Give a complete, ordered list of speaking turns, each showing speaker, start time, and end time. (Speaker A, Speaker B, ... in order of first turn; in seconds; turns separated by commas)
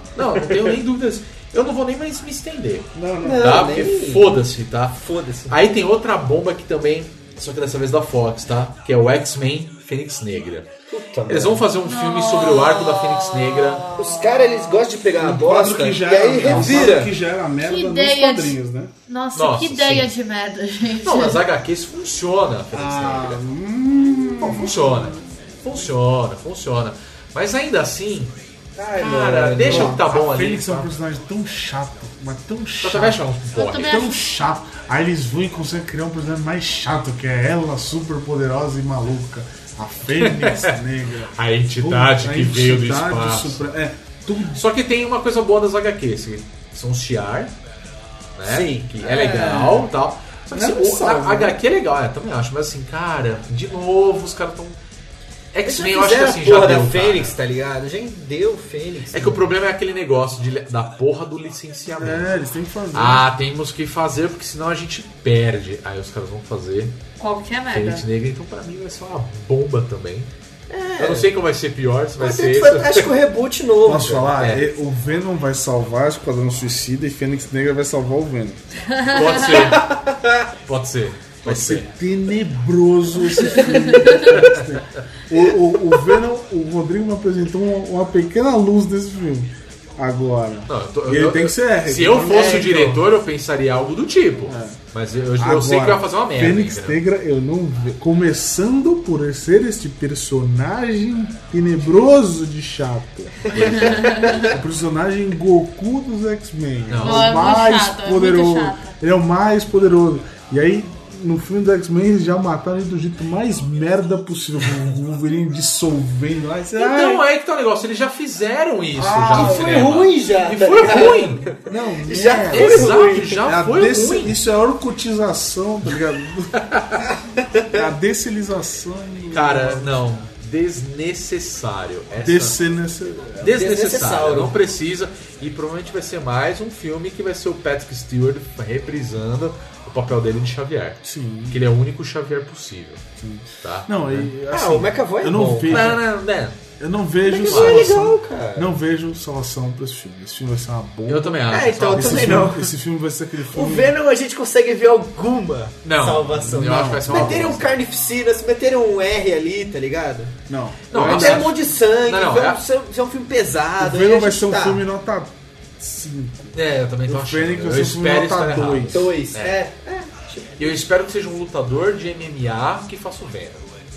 Speaker A: 0.1-5.0, Speaker B: 0.2-0.8, Speaker C: 2.9-3.6, Speaker B: 3.2-4.4, Speaker B: 4.9-5.6, Speaker A: 5.5-10.7, Speaker B: 10.9-11.7, Speaker A: 11.3-13.9, Speaker D: 11.8-14.8, Speaker B: 14.0-17.1, Speaker C: 15.2-18.9, Speaker A: 16.4-16.9, Speaker D: 17.6-21.4, Speaker A: 19.3-20.1, Speaker A: 21.0-23.4, Speaker C: 22.7-25.2, Speaker A: 24.4-28.4, Speaker B: 28.8-30.0, Speaker A: 28.9-30.9, Speaker C: 29.0-33.2, Speaker A: 32.8-34.0, Speaker D: 33.5-34.3, Speaker C: 33.8-44.6, Speaker A: 40.1-40.8, Speaker A: 41.3-43.6, Speaker A: 44.5-47.5, Speaker A: 48.4-54.8, Speaker B: 48.5-49.6, Speaker C: 49.1-49.9, Speaker C: 50.5-51.6, Speaker A: 55.5-57.3, Speaker B: 55.6-59.4, Speaker A: 59.1-62.3, Speaker C: 62.0-63.2, Speaker A: 62.9-67.0, Speaker D: 67.2-68.1, Speaker A: 67.7-70.3, Speaker B: 70.7-71.3, Speaker A: 71.0-73.1, Speaker B: 72.2-74.4, Speaker C: 73.8-78.6, Speaker A: 74.3-74.7, Speaker D: 78.9-79.3, Speaker A: 79.1-79.9, Speaker B: 79.5-80.5, Speaker A: 80.7-81.9, Speaker C: 81.5-93.0, Speaker B: 83.5-83.9, Speaker D: 83.9-84.3, Speaker A: 84.3-84.6, Speaker A: 90.7-97.0, Speaker B: 92.3-92.9, Speaker C: 94.5-94.8, Speaker C: 95.4-117.2, Speaker B: 103.5-104.6, Speaker A: 103.5-103.9, Speaker D: 103.7-104.5, Speaker A: 106.9-107.4, Speaker D: 107.0-108.9, Speaker A: 116.8-121.5, Speaker C: 119.0-119.9, Speaker B: 119.3-123.4, Speaker C: 120.9-126.5, Speaker A: 122.5-124.4, Speaker A: 126.5-127.1, Speaker B: 127.2-127.9, Speaker C: 127.7-130.1, Speaker A: 129.3-132.6, Speaker C: 132.2-133.6, Speaker A: 133.4-143.0, Speaker B: 133.5-134.6, Speaker C: 141.0-141.6, Speaker C: 143.2-146.0, Speaker A: 143.6-144.3, Speaker B: 144.5-146.0, Speaker A: 145.7-146.6, Speaker C: 146.8-153.9, Speaker B: 147.3-148.7, Speaker A: 147.4-147.9, Speaker A: 151.1-152.5, Speaker B: 151.5-152.7, Speaker B: 153.4-160.4, Speaker A: 155.8-157.8, Speaker C: 156.3-157.6, Speaker C: 160.5-161.5, Speaker A: 160.9-162.6, Speaker B: 160.9-164.8, Speaker C: 163.8-166.6, Speaker A: 166.5-169.6, Speaker C: 167.1-169.2, Speaker B: 168.9-170.8, Speaker A: 170.6-173.7